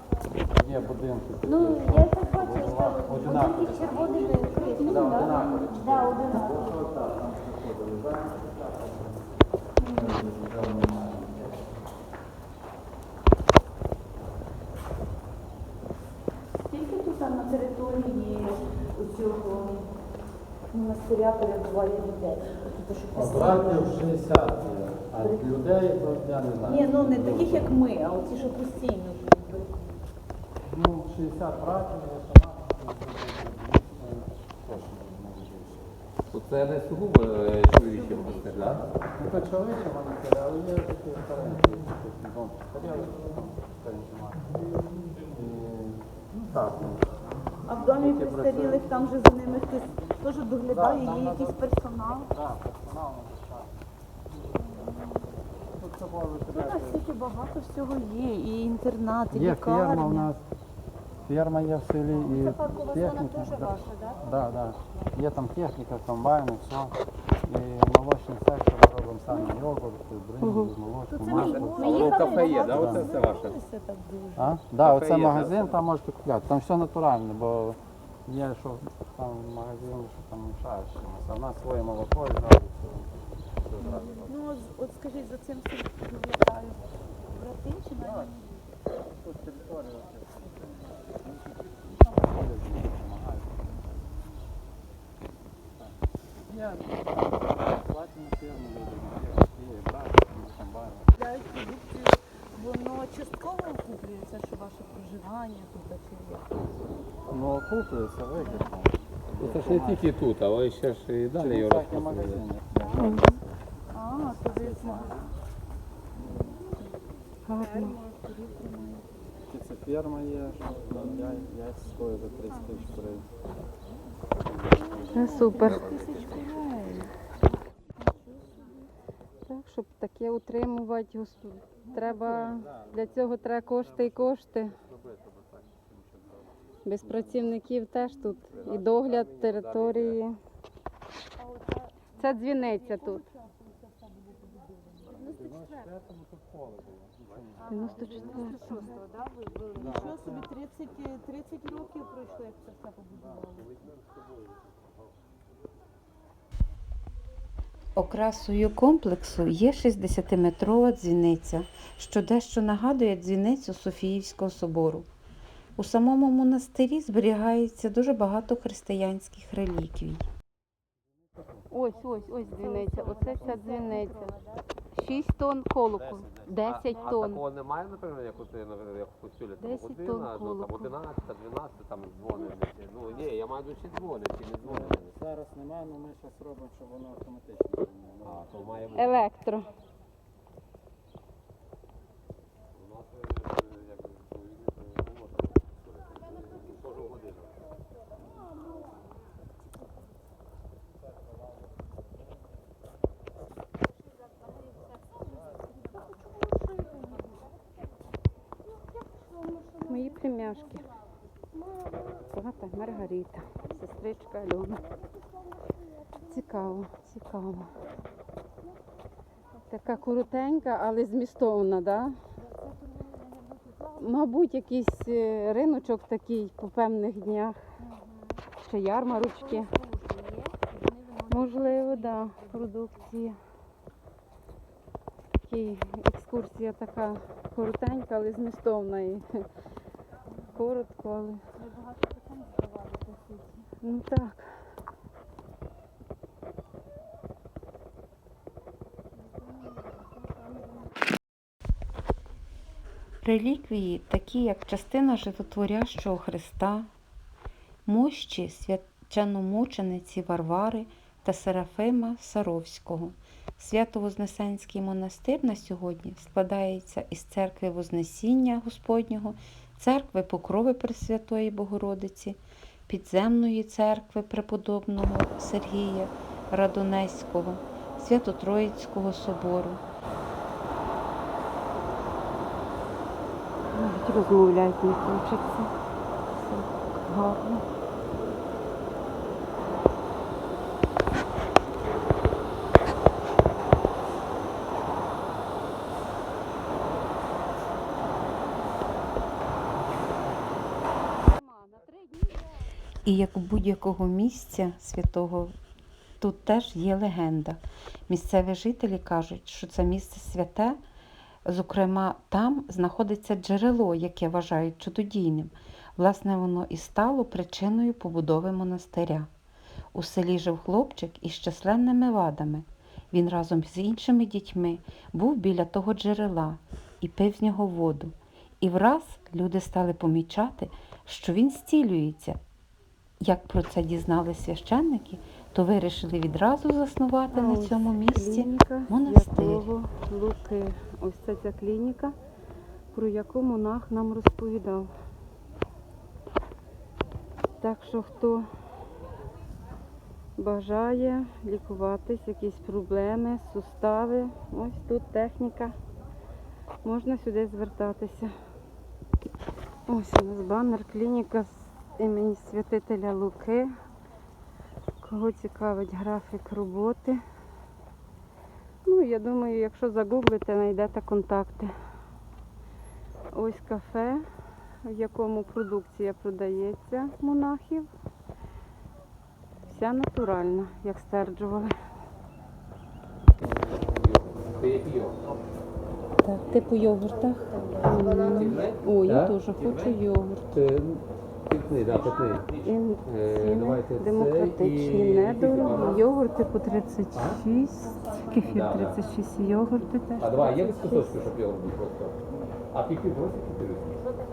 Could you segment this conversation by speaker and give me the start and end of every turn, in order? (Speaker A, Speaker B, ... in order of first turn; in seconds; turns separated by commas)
Speaker A: 0.5-11.6, Speaker B: 1.4-6.8, Speaker B: 9.8-10.2, Speaker B: 16.7-19.9, Speaker B: 20.7-23.9, Speaker A: 23.1-27.8, Speaker B: 25.2-25.4, Speaker B: 26.7-29.8, Speaker A: 30.6-35.9, Speaker C: 36.3-38.9, Speaker B: 37.9-38.6, Speaker A: 39.1-44.5, Speaker A: 45.2-47.2, Speaker B: 47.6-52.3, Speaker A: 47.7-49.0, Speaker A: 50.6-51.7, Speaker A: 52.3-53.9, Speaker B: 54.6-55.3, Speaker A: 55.8-57.1, Speaker B: 56.5-60.3, Speaker A: 59.3-60.5, Speaker A: 61.3-73.1, Speaker B: 62.1-64.4, Speaker B: 69.3-69.6, Speaker D: 70.4-70.7, Speaker B: 71.1-74.6, Speaker C: 71.6-73.6, Speaker A: 74.4-84.4, Speaker C: 74.8-75.8, Speaker B: 83.8-88.5, Speaker A: 88.0-88.3, Speaker A: 89.0-94.1, Speaker A: 95.8-101.1, Speaker B: 101.2-106.5, Speaker A: 107.3-110.1, Speaker B: 108.4-108.7, Speaker C: 109.4-112.4, Speaker A: 111.3-113.5, Speaker D: 113.0-113.4, Speaker B: 113.9-115.3, Speaker A: 114.5-115.3, Speaker D: 117.5-118.0, Speaker B: 117.6-119.1, Speaker A: 119.5-123.3, Speaker B: 122.5-122.8, Speaker A: 124.6-125.5, Speaker B: 124.8-127.1, Speaker D: 125.1-125.8, Speaker C: 125.6-126.5, Speaker D: 129.5-134.8, Speaker A: 132.1-134.4, Speaker C: 134.9-135.8, Speaker D: 136.8-140.4, Speaker A: 137.1-137.5, Speaker C: 138.5-140.2, Speaker B: 141.4-145.9, Speaker D: 142.2-143.2, Speaker A: 145.3-148.1, Speaker B: 147.6-153.7, Speaker D: 147.7-149.0, Speaker A: 149.7-150.5, Speaker C: 153.6-154.7, Speaker E: 158.0-165.1, Speaker E: 165.8-170.3, Speaker D: 171.7-174.3, Speaker B: 172.0-174.7, Speaker A: 173.2-173.7, Speaker D: 175.0-177.4, Speaker C: 176.4-185.1, Speaker D: 179.6-181.0, Speaker A: 184.6-188.5, Speaker C: 188.3-189.3, Speaker D: 188.9-189.7, Speaker C: 192.8-197.6, Speaker B: 205.8-207.3, Speaker B: 209.2-209.8, Speaker D: 209.8-210.9, Speaker D: 211.7-214.8, Speaker D: 216.3-217.7, Speaker D: 219.7-222.2, Speaker B: 223.2-223.8, Speaker D: 224.0-227.6, Speaker B: 227.8-228.4, Speaker D: 228.6-229.7, Speaker B: 229.0-232.5, Speaker D: 231.3-233.4, Speaker D: 235.5-239.2, Speaker D: 240.5-241.4, Speaker B: 241.6-243.7, Speaker D: 243.8-244.4, Speaker E: 253.2-256.9, Speaker E: 257.9-279.8, Speaker D: 283.7-285.7, Speaker D: 286.4-287.6, Speaker B: 301.2-302.5, Speaker E: 303.1-305.5, Speaker E: 306.2-310.8, Speaker E: 311.4-319.3, Speaker E: 319.9-332.4, Speaker E: 333.2-339.6, Speaker D: 337.3-342.1, Speaker D: 342.9-344.9, Speaker D: 347.6-348.5, Speaker D: 350.4-355.8, Speaker D: 356.8-358.3, Speaker D: 359.9-363.7, Speaker D: 365.0-367.2, Speaker D: 368.9-371.7, Speaker D: 373.3-374.2, Speaker D: 374.8-377.9, Speaker D: 379.6-381.7, Speaker C: 383.4-385.2, Speaker D: 386.2-387.3, Speaker E: 386.7-387.4, Speaker D: 387.8-390.5, Speaker C: 388.3-390.0, Speaker C: 390.5-396.1, Speaker D: 392.6-401.3, Speaker C: 397.1-397.4, Speaker C: 398.4-399.1, Speaker C: 400.2-402.2, Speaker C: 402.7-404.0